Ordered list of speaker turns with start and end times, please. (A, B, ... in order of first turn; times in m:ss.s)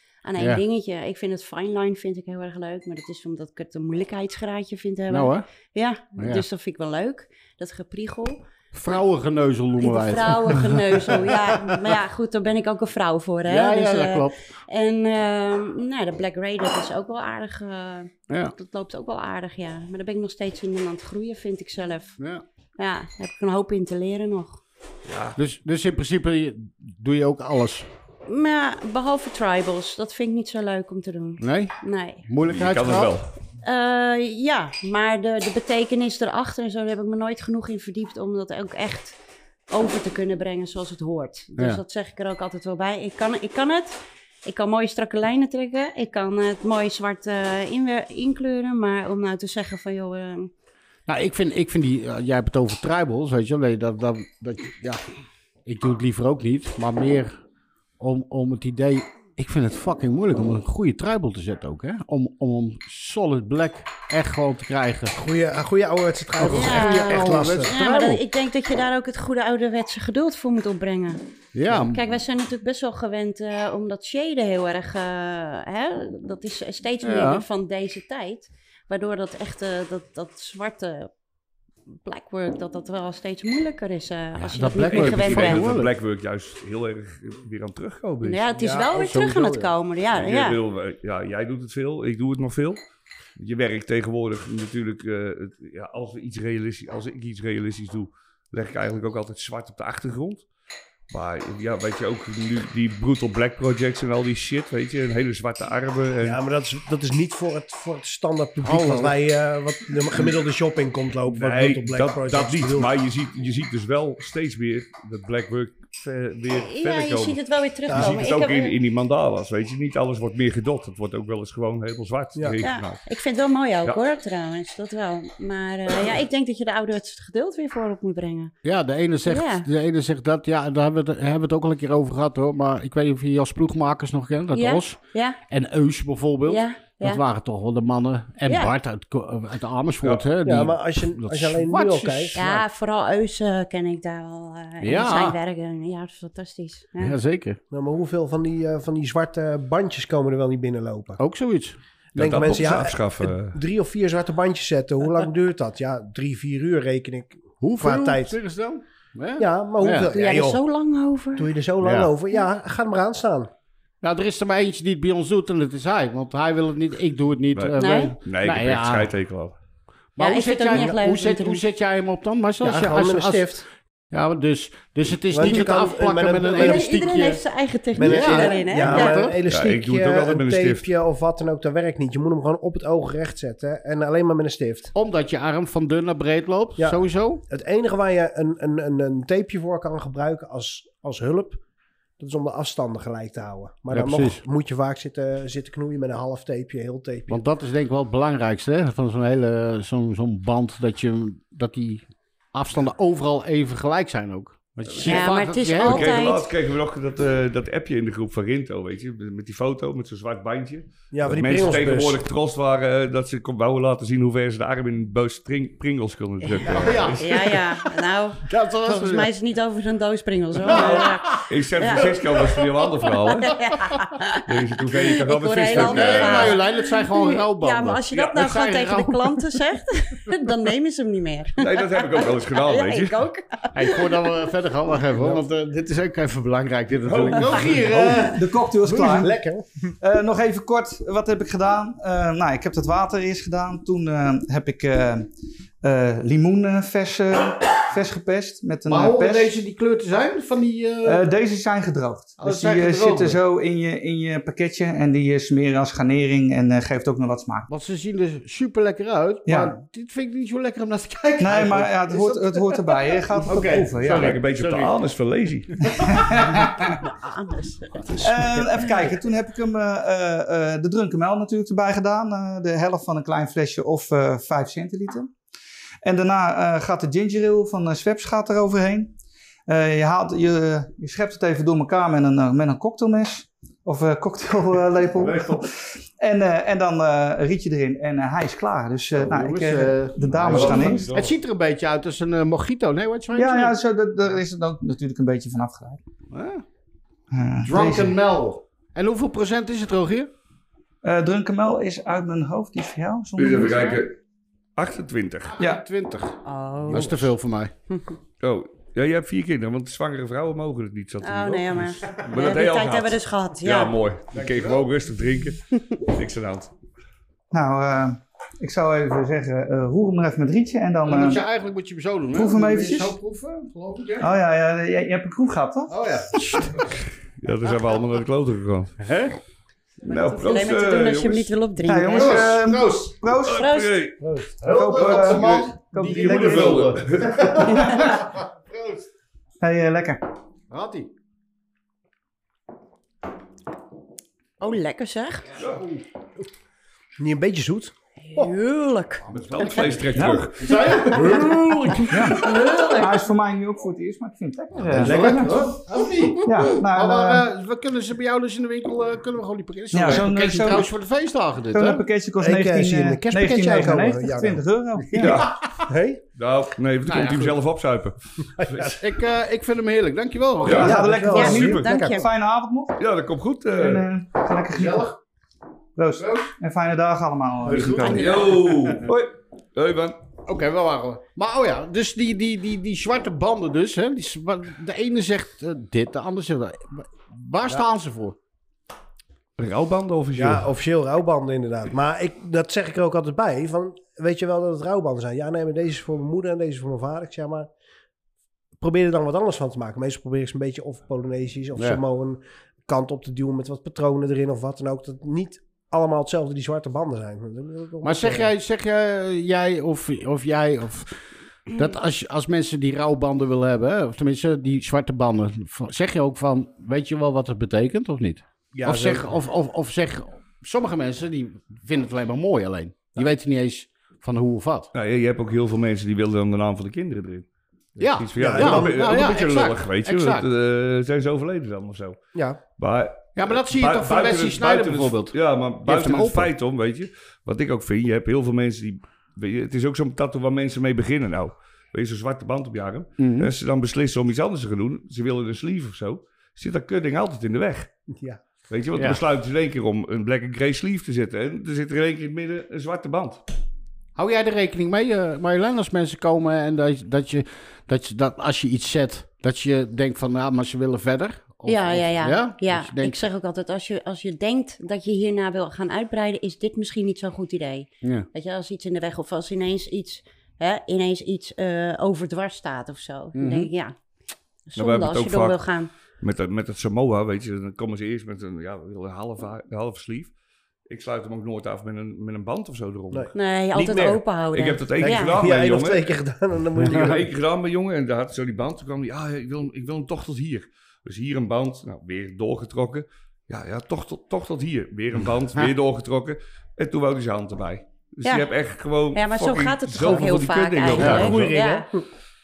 0:00.2-0:08.4 A
0:05.1-0:05.4 B
0:06.2-0:06.4 B
0:08.7-0:11.9 B
0:09.8-0:22.2 A
0:13.5-0:14.4 B
0:22.2-0:22.4 B
0:22.8-0:24.6 A
0:25.0-0:25.4 C
0:25.4-0:27.9 B
0:28.2-0:32.2 A
0:31.4-0:31.7 B
0:32.2-0:33.1 B
0:32.5-0:33.3 C
0:33.6-0:39.2 A
0:39.7-0:50.5 A
0:51.1-0:55.0 B
0:55.6-0:57.4 B
0:58.0-1:05.2 B
1:05.1-1:07.7 D
1:06.4-1:08.2 B
1:06.5-1:21.1 A
1:11.5-1:12.0 B
1:17.0-1:17.4 B
1:22.0-1:25.7 A
1:24.4-1:25.9 B
1:24.8-1:28.5 C
1:28.2-1:30.6 A
1:28.6-1:29.7 B
1:30.1-1:32.8 C
1:33.4-1:40.4 C
1:41.1-1:46.4 C
1:46.2-1:52.9 D
1:48.6-1:49.2 B
1:51.3-2:03.0 C
1:56.6-1:58.7 A
1:57.9-1:58.2 D
2:02.6-2:08.5 A
2:08.6-2:22.6 B
2:09.2-2:09.7 A
2:14.5-2:15.4 A
2:16.4-2:17.2 A
2:18.5-2:18.7 A
2:20.4-2:22.4 D
2:22.3-2:27.1 A
2:24.8-2:25.4 B
2:27.0-2:27.6 B
2:27.7-2:31.2 D
2:31.2-2:31.8 B
2:32.1-2:33.6 C
2:32.2-2:38.4 D
2:37.6-2:40.1 B
2:39.4-2:40.6 D
2:40.1-2:41.5 A
2:41.4-2:43.5 D
2:41.8-2:42.1 B
2:44.0-2:49.1 B
2:47.5-2:49.6 C
2:47.8-2:48.1 A
2:50.2-2:53.5 B
2:50.2-2:51.6 A
2:52.6-2:53.6 D
2:54.1-2:57.4 B
2:55.3-2:57.2 D
2:56.5-2:59.2 A
2:58.0-3:04.9 D
2:58.0-2:59.4 B
2:59.5-3:00.9 C
3:04.9-3:07.4 B
3:06.8-3:11.6 D
3:12.2-3:17.4 D
3:13.9-3:14.4 B
3:17.3-3:26.3 B
3:24.9-3:37.4 C
3:25.0-3:26.5 A
3:31.1-3:32.2 D
3:36.6-3:37.6 B
3:37.2-3:42.2 A
3:38.4-3:39.3 B
3:40.6-3:41.4 B
3:40.7-3:43.6 C
3:42.0-3:42.6 B
3:43.4-3:54.0 A
3:44.5-3:46.6 C
3:45.7-3:49.6 B
3:51.6-3:53.2 C
3:53.7-3:59.3 B
3:57.0-3:58.2 C
3:58.2-3:59.4 E
3:58.9-3:59.9 D
4:00.0-4:05.3 E
4:05.8-4:09.5 E
4:08.9-4:11.2 B
4:11.0-4:17.7 E
4:12.4-4:13.4 B
4:17.7-4:25.0 B
4:19.4-4:19.7 E
4:21.4-4:24.3 E
4:24.0-4:26.1 C
4:26.0-4:27.0 E
4:26.4-4:26.7 B
4:27.0-4:28.4 A
4:28.2-4:35.3 E
4:36.0-4:39.1 E
4:39.7-4:51.1 E
4:45.2-4:45.6 C
4:49.2-4:53.7 B
4:50.4-4:51.3 C
4:53.3-4:56.0 E
4:56.3-4:56.6 B
4:57.3-4:58.2 E
4:57.6-5:00.3 B
5:01.0-5:04.0 E
5:03.4-5:04.1 C
5:04.8-5:05.6 C
5:05.5-5:07.7 B
5:06.4-5:07.3 A
5:08.4-5:16.7 C
5:11.2-5:14.0 A
5:14.3-5:14.8 B
5:17.5-5:21.4 E
5:21.0-5:24.3 B
5:22.3-5:23.2 E
5:24.2-5:26.4 E
5:25.9-5:27.0 B
5:27.4-5:29.0 C
5:29.0-5:29.4 B
5:30.0-5:31.5 C
5:30.0-5:32.5 A
5:31.8-5:33.7 E
5:32.1-5:33.2 B
5:33.4-5:34.2 C
5:33.5-5:34.0 A
5:34.2-5:39.0 B
5:34.7-5:37.0 E
5:35.0-5:37.9 C
5:37.6-5:38.2 E
5:39.6-5:40.2 E
5:40.7-5:41.1 B
5:44.6-5:45.5 A
5:45.6-5:45.8 C
5:45.7-5:46.0 B
5:47.2-5:48.5 D
5:48.2-5:49.8 A
5:49.3-5:51.3 C
5:49.4-5:53.1 B
5:50.1-5:50.5 E
5:51.1-5:51.4 A
5:52.1-5:55.8 E
5:52.4-5:52.9 A
5:54.8-6:02.0 B
5:55.0-5:55.4 C
5:56.4-5:57.4 E
5:59.9-6:00.9 E
6:01.7-6:05.5 E
6:02.4-6:04.6 D
6:05.1-6:05.6 C
6:05.2-6:05.7 B
6:05.8-6:06.2 D
6:06.4-6:09.0 C
6:07.0-6:07.6 B
6:08.6-6:08.9 D
6:09.0-6:11.0 B
6:10.6-6:11.8 C
6:10.7-6:13.0 E
6:10.8-6:12.2 D
6:11.2-6:12.3 A
6:13.0-6:14.0 C
6:13.8-6:15.1 E
6:14.7-6:15.2 B
6:16.0-6:18.5 E
6:16.2-6:16.5 B
6:17.6-6:19.0 B
6:17.8-6:20.2 C
6:20.4-6:28.4 B
6:29.6-6:30.7 C
6:30.3-6:37.7 D
6:38.8-6:48.5 D
6:41.8-6:42.0 B
6:48.0-7:04.9 B
6:58.7-6:59.3 D
7:04.9-7:07.5 C
7:08.0-7:12.2 C
7:08.0-7:10.5 B
7:08.4-7:09.2 D
7:12.3-7:12.6 D
7:12.8-7:27.9 C
7:13.4-7:16.5 B
7:23.2-7:23.5 B
7:28.1-7:28.4 D
7:28.7-7:33.4 C
7:28.9-7:29.2 B
7:34.2-7:43.2 B
7:41.6-7:53.9 A
7:53.3-7:53.7 B
7:54.7-7:55.9 A
7:54.8-7:55.6 C
7:56.2-8:00.3 C
8:00.9-8:03.3 C
8:03.1-8:04.2 D
8:03.3-8:05.4 A
8:04.5-8:06.1 C
8:05.0-8:07.3 D
8:06.8-8:07.1 B
8:06.8-8:21.6 C
8:19.1-8:21.9 A
8:20.9-8:22.0 D
8:21.0-8:21.3 B